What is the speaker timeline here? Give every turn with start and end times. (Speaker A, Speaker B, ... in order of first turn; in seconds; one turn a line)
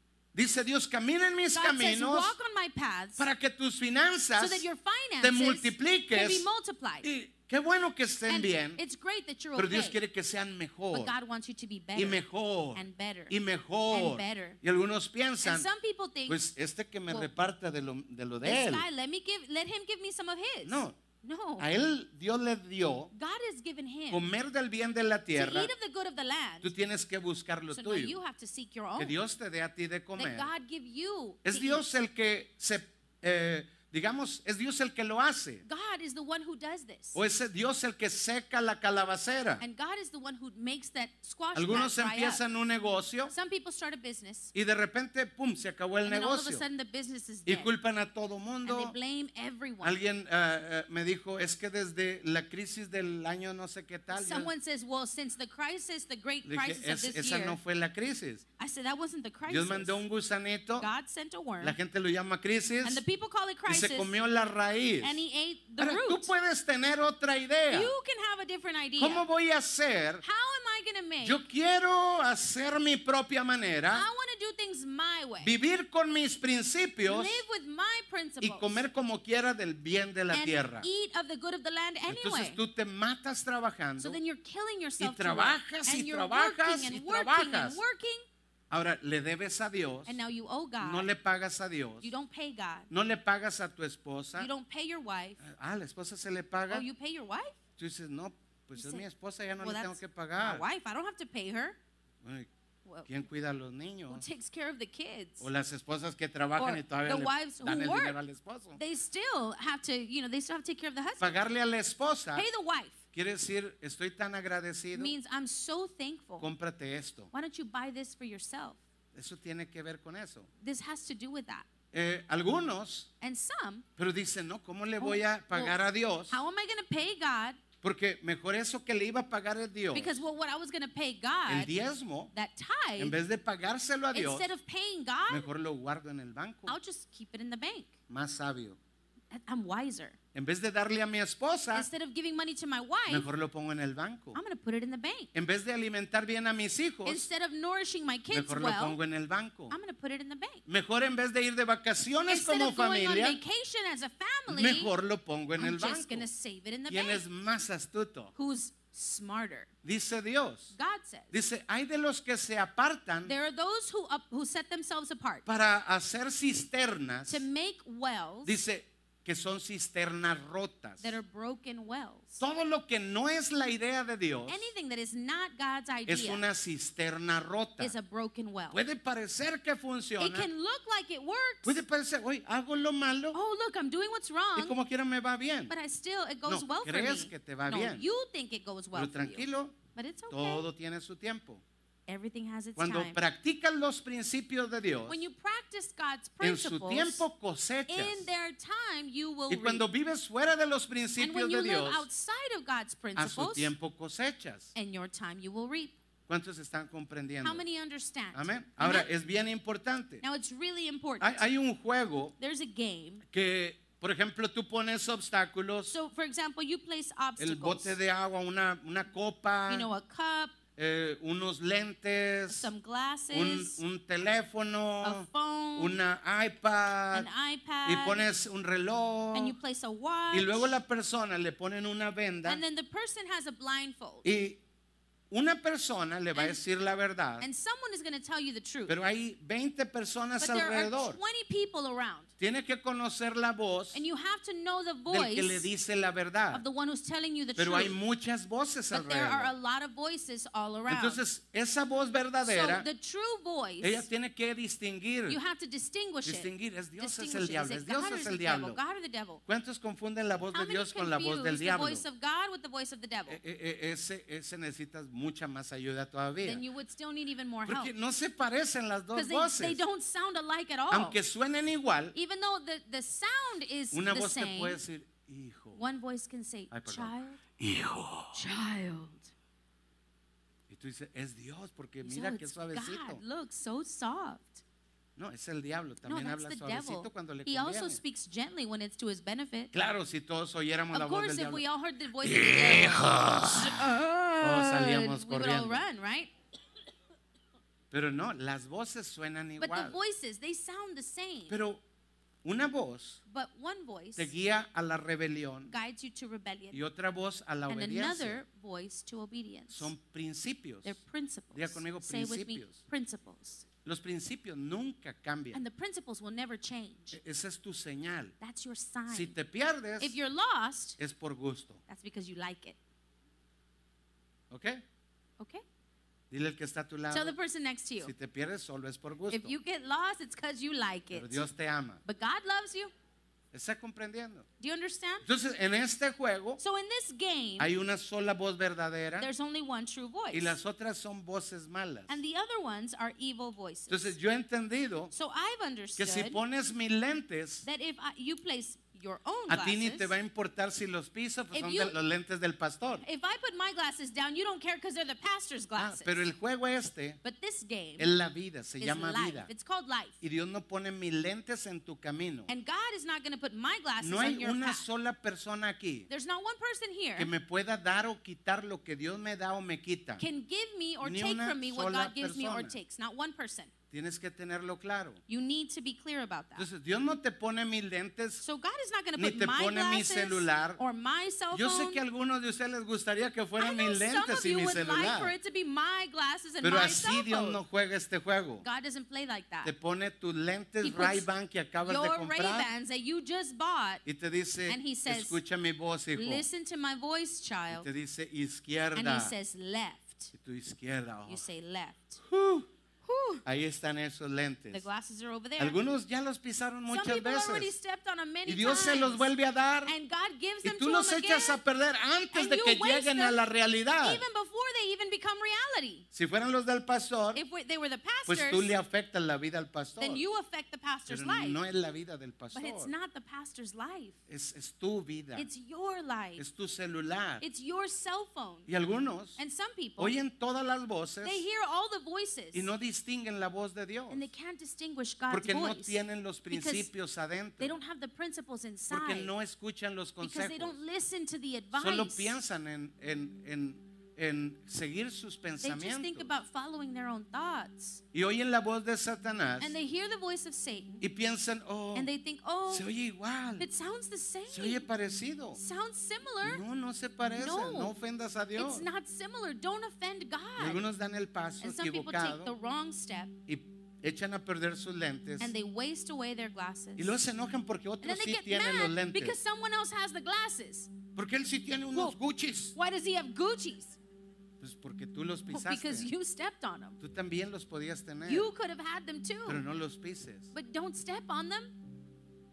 Speaker A: 0.3-2.3
Speaker B: 1.5-3.2
Speaker A: 3.2-4.7
Speaker B: 4.4-7.1
Speaker A: 5.2-6.5
Speaker A: 7.0-8.8
Speaker B: 8.3-10.0
Speaker A: 9.6-11.1
Speaker B: 10.9-13.3
Speaker A: 11.9-15.7
Speaker B: 13.9-14.6
Speaker B: 15.4-16.4
Speaker A: 16.3-18.8
Speaker B: 18.4-21.7
Speaker A: 20.6-21.0
Speaker A: 21.6-23.1
Speaker B: 23.1-24.2
Speaker A: 24.1-25.7
Speaker B: 25.3-26.7
Speaker A: 26.6-28.2
Speaker B: 27.7-29.1
Speaker A: 29.0-30.5
Speaker B: 30.1-31.8
Speaker A: 31.4-35.6
Speaker B: 35.6-37.2
Speaker A: 37.1-39.6
Speaker B: 39.6-42.4
Speaker A: 41.5-43.3
Speaker B: 43.3-44.5
Speaker A: 44.5-46.6
Speaker B: 46.0-47.7
Speaker A: 47.5-48.9
Speaker B: 48.6-50.0
Speaker A: 49.8-54.5
Speaker B: 54.1-57.6
Speaker A: 56.4-58.4
Speaker B: 58.6-60.0
Speaker A: 59.5-60.9
Speaker B: 60.8-61.8
Speaker A: 61.6-63.0
Speaker B: 62.8-64.1
Speaker A: 63.7-65.2
Speaker B: 65.0-66.3
Speaker A: 65.8-67.9
Speaker B: 67.7-69.2
Speaker A: 69.0-70.2
Speaker B: 70.2-71.4
Speaker A: 71.2-74.1
Speaker B: 73.9-75.5
Speaker A: 75.4-77.4
Speaker B: 77.0-78.8
Speaker A: 78.4-80.9
Speaker B: 80.3-82.6
Speaker A: 82.1-84.2
Speaker B: 84.0-88.2
Speaker A: 85.0-87.8
Speaker A: 88.7-90.2
Speaker B: 90.0-91.1
Speaker A: 90.8-92.1
Speaker B: 92.0-92.9
Speaker A: 92.9-94.5
Speaker B: 94.4-95.4
Speaker A: 95.4-96.8
Speaker B: 96.7-97.6
Speaker A: 97.8-100.6
Speaker B: 98.8-99.0
Speaker B: 99.6-101.8
Speaker A: 102.2-102.5
Speaker B: 102.8-103.1
Speaker A: 103.0-104.2
Speaker B: 104.1-105.5
Speaker A: 105.4-108.8
Speaker B: 106.6-108.2
Speaker B: 108.8-111.4
Speaker A: 111.2-112.5
Speaker B: 112.3-113.0
Speaker A: 113.1-115.1
Speaker B: 114.9-116.5
Speaker A: 116.4-117.3
Speaker B: 117.3-118.8
Speaker A: 119.1-120.5
Speaker B: 120.6-121.7
Speaker A: 121.9-123.1
Speaker B: 123.2-123.8
Speaker A: 124.0-126.4
Speaker B: 125.0-125.8
Speaker B: 126.3-127.6
Speaker A: 127.8-130.2
Speaker B: 129.9-131.7
Speaker A: 131.5-132.3
Speaker B: 132.3-133.2
Speaker A: 133.0-134.5
Speaker B: 134.1-135.5
Speaker A: 135.3-136.8
Speaker B: 136.7-137.9
Speaker A: 138.1-138.8
Speaker B: 139.3-140.2
Speaker A: 140.3-141.9
Speaker B: 141.7-143.3
Speaker A: 143.1-144.4
Speaker B: 144.3-145.3
Speaker A: 145.3-147.3
Speaker B: 147.0-149.0
Speaker A: 148.3-149.7
Speaker B: 149.7-150.6
Speaker A: 150.7-153.4
Speaker B: 152.3-154.9
Speaker A: 154.5-156.3
Speaker B: 155.6-157.2
Speaker A: 156.9-158.3
Speaker B: 158.3-159.7
Speaker A: 159.8-160.7
Speaker B: 160.7-161.3
Speaker A: 161.3-163.3
Speaker B: 163.2-165.4
Speaker A: 165.4-167.4
Speaker B: 167.3-168.5
Speaker A: 168.4-171.1
Speaker B: 171.0-172.4
Speaker A: 172.4-174.7
Speaker B: 174.5-176.4
Speaker A: 176.1-177.9
Speaker B: 177.8-178.8
Speaker A: 178.7-180.5
Speaker B: 180.2-181.8
Speaker A: 181.6-183.4
Speaker B: 183.3-184.8
Speaker A: 184.6-185.7
Speaker B: 185.7-190.7
Speaker A: 186.5-188.1
Speaker A: 188.9-189.8
Speaker A: 190.3-191.6
Speaker B: 192.1-193.2
Speaker A: 192.8-195.2
Speaker B: 195.1-197.2
Speaker A: 196.4-198.3
Speaker B: 197.9-199.8
Speaker A: 199.5-202.1
Speaker B: 201.2-203.7
Speaker A: 203.2-204.7
Speaker B: 204.7-205.9
Speaker A: 206.3-207.6
Speaker B: 207.4-209.1
Speaker A: 208.3-210.2
Speaker B: 210.2-211.4
Speaker A: 211.2-212.3
Speaker B: 212.4-213.2
Speaker A: 213.3-215.9
Speaker B: 215.9-217.9
Speaker A: 217.4-219.9
Speaker B: 219.7-220.6
Speaker A: 220.8-222.7
Speaker B: 222.5-223.8
Speaker A: 223.3-227.3
Speaker B: 225.0-226.0
Speaker B: 227.1-228.3
Speaker A: 227.8-229.6
Speaker B: 229.3-230.8
Speaker A: 230.3-232.6
Speaker B: 232.4-234.2
Speaker A: 234.2-234.6
Speaker A: 235.3-237.4
Speaker B: 236.3-236.6
Speaker B: 237.4-238.9
Speaker A: 238.9-241.2
Speaker B: 240.4-242.3
Speaker A: 242.4-244.0
Speaker B: 243.9-245.7
Speaker A: 245.1-246.6
Speaker B: 246.5-248.0
Speaker A: 247.6-249.5
Speaker B: 248.9-251.2
Speaker A: 250.9-252.9
Speaker B: 252.4-254.1
Speaker A: 253.8-255.4
Speaker B: 255.3-259.4
Speaker A: 256.2-258.8
Speaker A: 259.5-262.0
Speaker B: 260.5-263.4
Speaker A: 263.3-266.6
Speaker B: 266.4-267.9
Speaker A: 267.6-269.8
Speaker B: 269.1-271.2
Speaker A: 270.9-272.1
Speaker B: 272.1-274.8
Speaker A: 273.9-275.8
Speaker B: 275.8-277.4
Speaker A: 276.7-278.4
Speaker B: 278.3-279.3
Speaker A: 280.7-283.2
Speaker B: 282.0-284.6
Speaker A: 285.2-288.0
Speaker B: 286.0-289.7
Speaker A: 289.7-291.6
Speaker B: 290.9-296.3
Speaker A: 292.2-293.9
Speaker A: 294.4-295.8
Speaker A: 297.9-300.0
Speaker B: 299.6-301.6
Speaker A: 301.5-301.8
Speaker A: 302.4-303.2
Speaker B: 303.3-304.3
Speaker A: 304.1-305.7
Speaker B: 305.7-306.8
Speaker A: 306.7-308.4
Speaker B: 307.7-309.9
Speaker A: 309.7-311.0
Speaker B: 310.8-313.6
Speaker A: 311.5-312.8
Speaker A: 313.8-315.6
Speaker B: 315.5-317.2
Speaker A: 317.1-318.3
Speaker B: 318.4-319.4
Speaker A: 319.1-320.1
Speaker B: 320.0-321.0
Speaker A: 321.0-321.8
Speaker B: 321.9-322.8
Speaker A: 324.5-324.8
Speaker B: 325.4-325.6
Speaker A: 326.3-327.4
Speaker B: 327.1-328.1
Speaker A: 328.0-329.6
Speaker B: 329.3-331.4
Speaker A: 331.1-332.0
Speaker B: 332.0-332.9
Speaker A: 333.5-334.4
Speaker B: 334.6-335.2
Speaker A: 335.2-336.6
Speaker B: 336.6-337.7
Speaker A: 337.6-339.3
Speaker B: 339.2-340.6
Speaker A: 340.3-342.2
Speaker B: 342.1-344.2
Speaker A: 343.9-345.1
Speaker B: 345.1-346.4
Speaker A: 346.0-347.6
Speaker B: 347.6-350.1
Speaker A: 349.5-353.0
Speaker B: 351.5-351.9
Speaker B: 353.0-356.3
Speaker A: 355.8-357.2
Speaker B: 357.2-358.1
Speaker A: 358.0-359.5
Speaker B: 358.8-360.2
Speaker A: 360.2-362.5
Speaker B: 362.5-364.9
Speaker A: 364.0-366.1
Speaker B: 366.1-367.3
Speaker A: 367.2-370.2
Speaker B: 370.2-373.7
Speaker A: 371.0-372.8
Speaker A: 373.9-375.2
Speaker B: 375.3-376.7
Speaker A: 376.6-378.4
Speaker B: 378.4-382.0
Speaker A: 379.2-380.8
Speaker A: 381.5-385.3
Speaker B: 383.6-387.6
Speaker A: 386.6-388.6
Speaker B: 388.6-389.7
Speaker A: 389.6-392.7
Speaker B: 390.8-391.3
Speaker B: 391.8-394.0
Speaker A: 394.0-396.4
Speaker B: 394.7-395.4
Speaker B: 396.1-397.9
Speaker A: 397.7-399.3
Speaker B: 398.9-400.3
Speaker A: 400.3-401.4
Speaker B: 401.3-402.2
Speaker A: 402.3-402.7
Speaker B: 403.0-403.4
Speaker A: 403.4-404.9
Speaker B: 404.7-405.8
Speaker A: 405.6-407.7
Speaker B: 406.9-409.3
Speaker A: 408.4-409.9
Speaker B: 409.8-411.6
Speaker A: 410.6-414.2
Speaker B: 412.3-413.4
Speaker B: 414.0-416.1
Speaker A: 416.1-417.4
Speaker B: 417.3-418.7
Speaker A: 418.3-420.2
Speaker B: 420.0-421.6
Speaker A: 421.1-422.9
Speaker B: 422.5-424.2
Speaker A: 424.3-425.5
Speaker B: 425.4-426.4
Speaker A: 426.4-427.4
Speaker B: 427.4-428.7
Speaker A: 428.7-429.4
Speaker B: 429.4-430.1
Speaker A: 430.0-431.4
Speaker B: 431.2-432.7
Speaker A: 432.5-434.3
Speaker B: 434.1-436.9
Speaker A: 435.3-437.8
Speaker B: 437.6-439.3
Speaker A: 438.9-440.8
Speaker B: 440.2-442.4
Speaker A: 441.7-446.3
Speaker B: 445.6-448.0
Speaker A: 448.1-449.7
Speaker B: 449.6-451.0
Speaker A: 451.0-452.1
Speaker B: 451.9-452.9
Speaker A: 452.7-453.7
Speaker B: 453.6-454.9
Speaker A: 454.5-455.6
Speaker B: 455.5-456.6
Speaker A: 456.4-458.9
Speaker B: 457.3-457.9
Speaker B: 458.6-460.8
Speaker A: 460.6-462.5
Speaker B: 461.6-463.3
Speaker A: 463.5-465.5
Speaker B: 465.4-467.2
Speaker A: 467.0-469.4
Speaker B: 468.0-470.9
Speaker A: 471.1-472.7
Speaker B: 472.7-474.0
Speaker A: 474.6-476.1
Speaker B: 475.5-477.0
Speaker A: 477.0-478.5
Speaker B: 478.2-479.6
Speaker A: 479.4-480.5
Speaker B: 480.5-481.7